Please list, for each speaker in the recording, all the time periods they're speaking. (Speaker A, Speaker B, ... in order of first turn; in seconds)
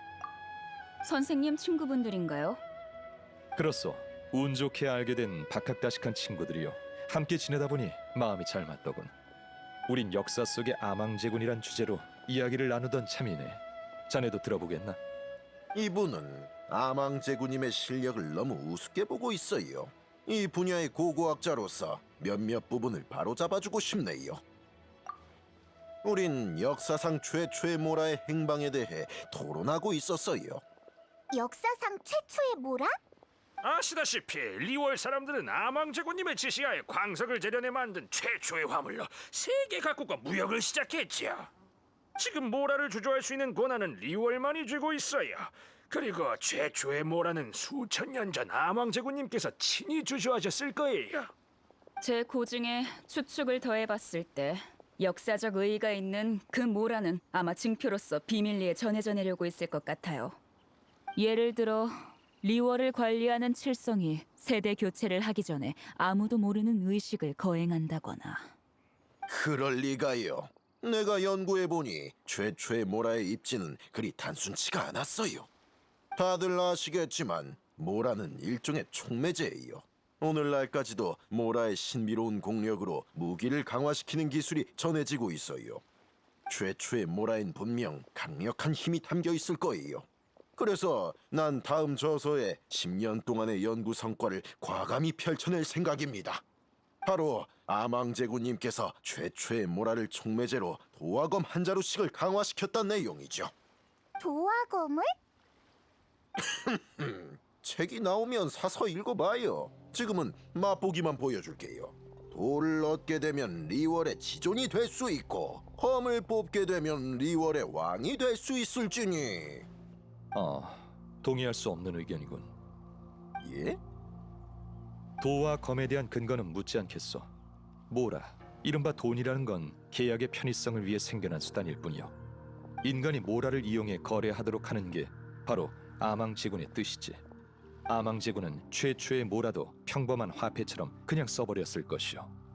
Speaker A: 1.0-2.6, 52.0-60.4, 61.1-68.5
Speaker B: 3.5-9.1, 9.9-15.0, 120.3-122.5, 125.2-127.3, 127.9-132.1, 132.8-137.2, 137.9-142.3
Speaker C: 15.7-24.4, 26.0-30.6, 69.3-75.5, 76.2-85.8, 86.5-96.4, 97.0-103.5, 106.4-119.7, 123.4-123.8
Speaker D: 31.3-32.9, 104.2-105.1
Speaker E: 33.6-41.5, 42.2-51.3